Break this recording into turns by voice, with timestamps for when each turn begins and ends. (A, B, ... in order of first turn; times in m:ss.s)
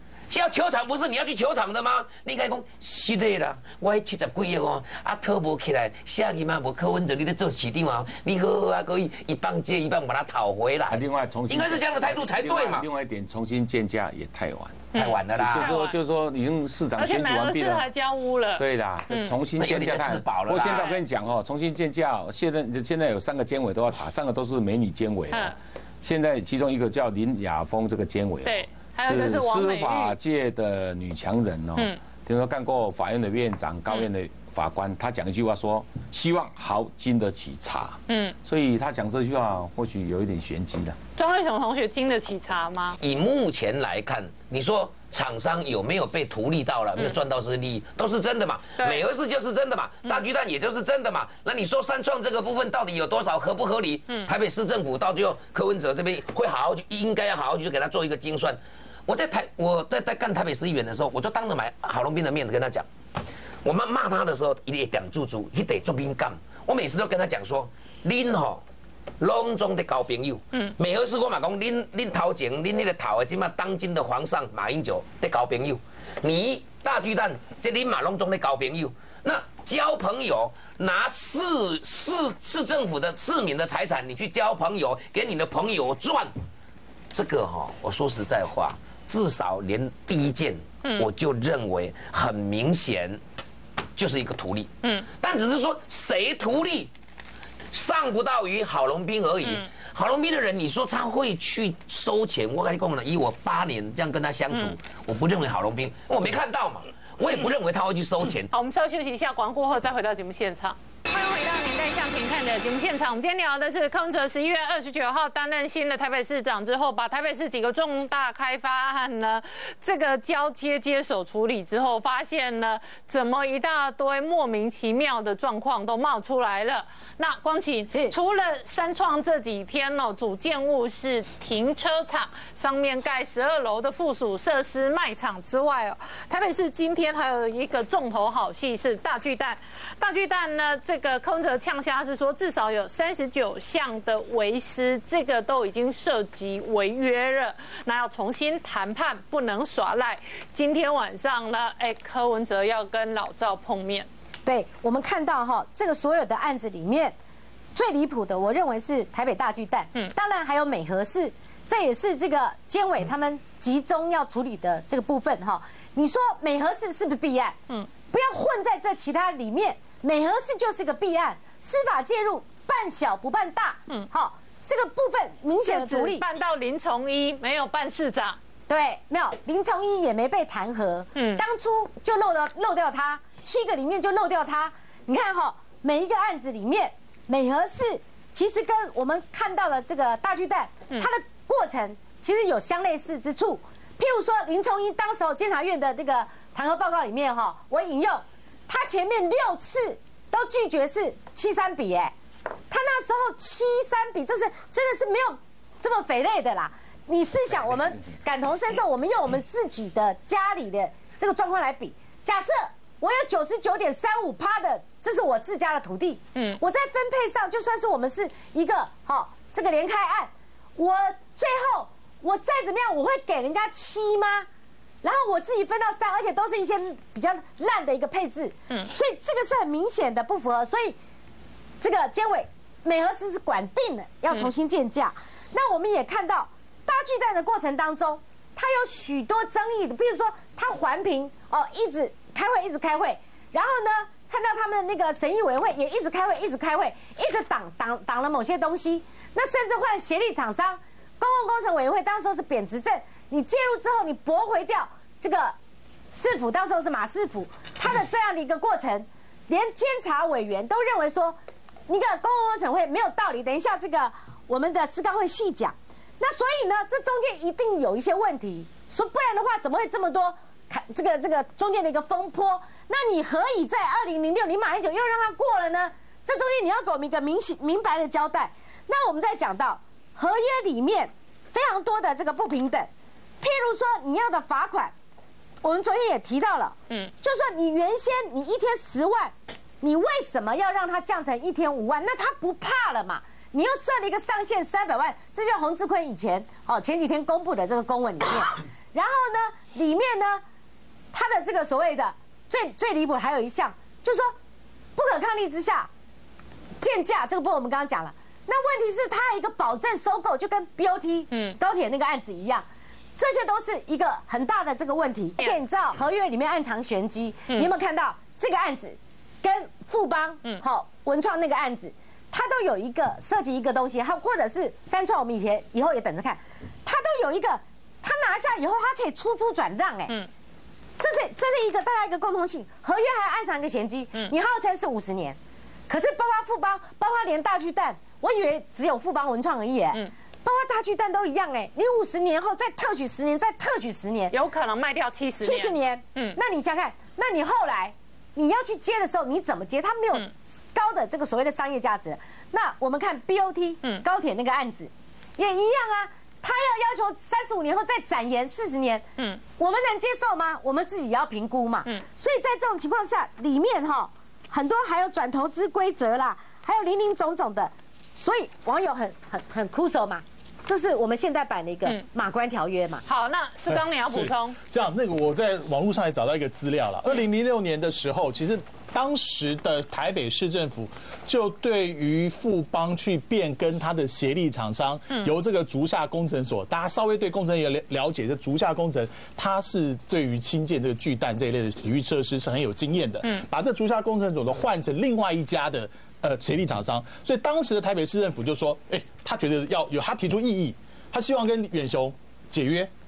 0:00.3-0:12.8 A
0:10.9-0:17.9 B
0:14.9-0:16.0 C
0:15.0-0:15.7 A
0:17.0-0:19.4 C
0:18.6-0:41.0 B
0:19.6-0:20.9 A
0:20.6-0:21.0 C
0:28.4-0:30.2 C
0:38.1-0:38.4 C
0:41.2-0:43.0 C
0:43.0-1:02.9 A
0:48.8-0:49.0 C
1:03.6-1:08.6 A
1:09.2-1:26.3 A
1:27.1-1:33.2 A
1:34.0-1:36.9 A
1:37.7-1:48.5 A
1:48.5-2:34.1 C
2:34.4-2:37.2 D
2:37.7-2:47.6 D
2:48.1-2:56.2 D
2:55.6-2:58.4 C
2:58.7-3:22.1 D
3:01.2-3:01.4 C
3:22.7-3:44.5 D
3:45.0-3:51.0 D
3:51.8-4:15.6 D
4:16.1-4:42.9 D
4:43.4-4:44.9 D
4:45.6-5:00.4 D
5:01.1-5:04.4 D
5:05.0-5:05.9 D
5:06.8-5:30.2 D
5:11.3-5:11.6 C
5:31.0-5:44.3 D
5:44.3-5:46.4 C
5:45.4-6:13.0 D
6:13.1-6:14.6 C
6:13.7-6:42.9 E